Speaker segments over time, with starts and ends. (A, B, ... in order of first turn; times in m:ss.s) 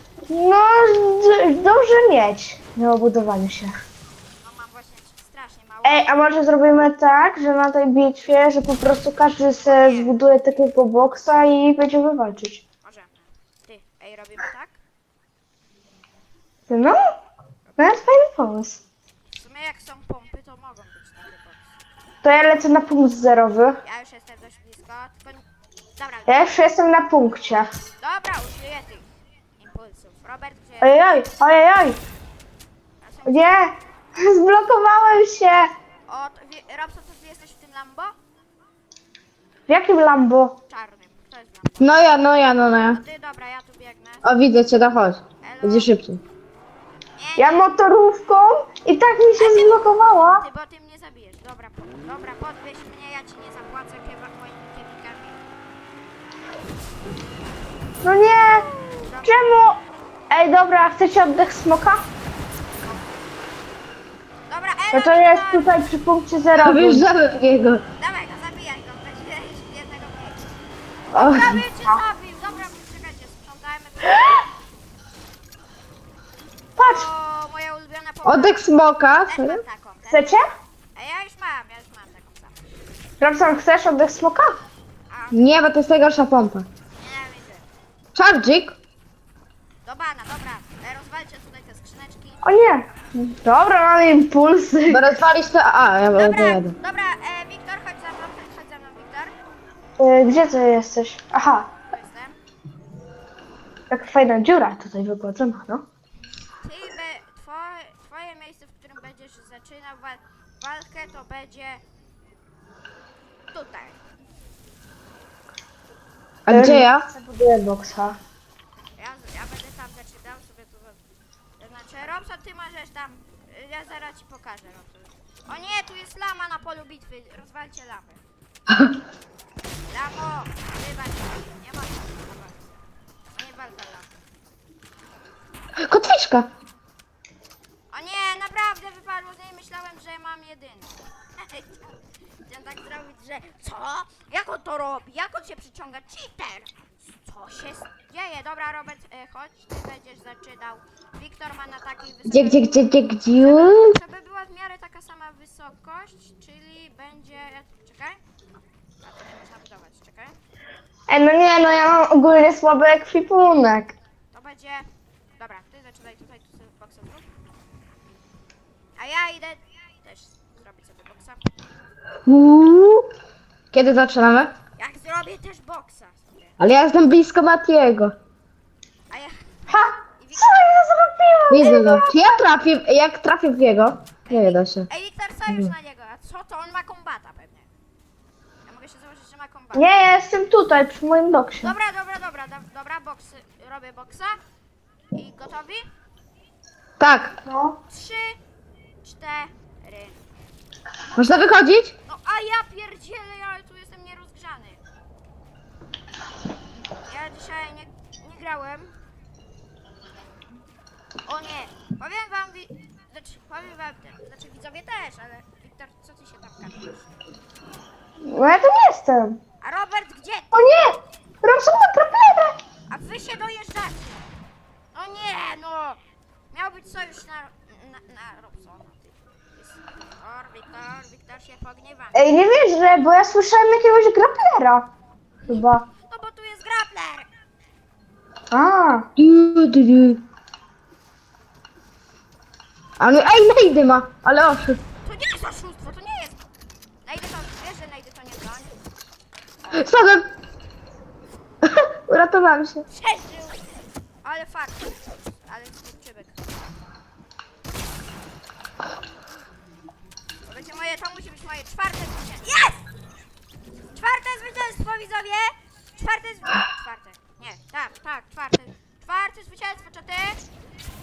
0:00.3-0:03.7 A
0:04.4-0:06.1 B
0:05.8-0:12.6 A
0:09.7-0:10.1 B
0:12.8-0:14.8 B
0:16.7-0:17.0 A
0:17.8-0:18.8 A
0:19.3-0:21.8 B
0:22.2-0:23.8 A
0:23.8-0:25.4 B
0:26.0-0:26.6 B
0:26.3-0:27.7 A
0:28.0-0:29.1 B
0:29.6-0:31.3 B
0:30.8-0:32.0 A
0:33.0-0:33.7 B
0:33.2-0:35.7 A
0:36.1-0:38.2 B
0:39.7-0:40.5 A
0:40.7-0:42.1 B
0:41.8-0:43.0 C
0:42.9-0:44.3 B
0:44.2-0:46.2 C
0:45.4-0:45.9 B
0:47.2-0:47.7 B
0:47.4-0:50.4 A
0:49.4-0:55.4 B
0:58.0-0:58.7 A
0:59.0-0:59.4 B
0:59.2-0:59.8 A
1:00.3-1:02.0 A
1:02.6-1:03.2 B
1:04.5-1:05.8 B
1:04.9-1:07.0 A
1:06.5-1:07.8 C
1:08.0-1:10.4 B
1:11.1-1:11.6 C
1:11.1-1:14.5 B
1:16.8-1:17.1 A
1:16.8-1:18.6 B
1:18.2-1:19.6 C
1:19.3-1:20.4 B
1:20.1-1:20.4 A
1:20.9-1:22.7 B
1:23.2-1:24.6 A
1:25.1-1:25.6 B
1:25.3-1:26.7 C
1:26.9-1:27.7 B
1:28.1-1:28.8 C
1:29.8-1:32.4 B
1:32.4-1:35.1 A
1:34.9-1:36.7 C
1:36.1-1:39.3 B
1:40.0-1:41.7 A
1:41.9-1:42.4 B
1:43.9-1:45.8 A
1:46.6-1:51.8 B
1:53.5-1:54.0 B
1:56.5-1:57.1 C
1:56.5-1:58.2 A
1:59.0-2:01.0 B
2:01.6-2:08.2 B
2:09.9-2:12.8 B
2:13.3-2:14.1 B
2:15.8-2:16.5 C
2:17.9-2:21.9 B
2:22.5-2:32.8 B
2:32.3-2:33.9 C
2:33.4-2:38.2 B
2:39.0-2:40.4 B
2:41.1-2:43.9 A
2:44.3-2:47.3 B
2:49.0-2:51.5 B
2:52.2-2:53.1 C
2:53.7-2:54.5 C
2:54.8-2:56.6 B
2:56.6-2:58.1 C
2:59.1-3:00.6 B
2:59.7-3:02.2 A
3:01.5-3:04.9 C
3:04.2-3:07.7 B
3:05.5-3:05.7 C
3:08.6-3:09.8 B
3:09.7-3:11.7 A
3:11.6-3:14.4 B
3:15.1-3:15.9 B
3:17.0-3:17.3 C
3:17.4-3:17.8 A
3:17.9-3:18.4 B
3:19.0-3:20.2 B
3:21.2-3:21.9 C
3:22.0-3:24.8 B
3:27.1-3:28.9 B
3:31.2-3:37.1 B
3:38.2-3:39.4 A
3:39.6-3:40.8 B
3:40.5-3:42.5 A
3:42.9-3:44.2 B
3:44.9-3:46.0 B
3:46.5-3:52.2 B
3:52.1-3:54.9 A
3:55.4-3:55.8 A
3:55.5-3:57.3 B
3:58.5-3:59.1 A
3:59.2-4:00.2 C
4:03.0-4:04.8 C
4:05.0-4:06.5 B
4:07.0-4:08.8 B
4:09.6-4:10.0 B
4:09.7-4:10.2 C
4:11.6-4:12.8 C
4:12.9-4:16.7 B
4:20.4-4:22.9 B
4:23.9-4:30.4 B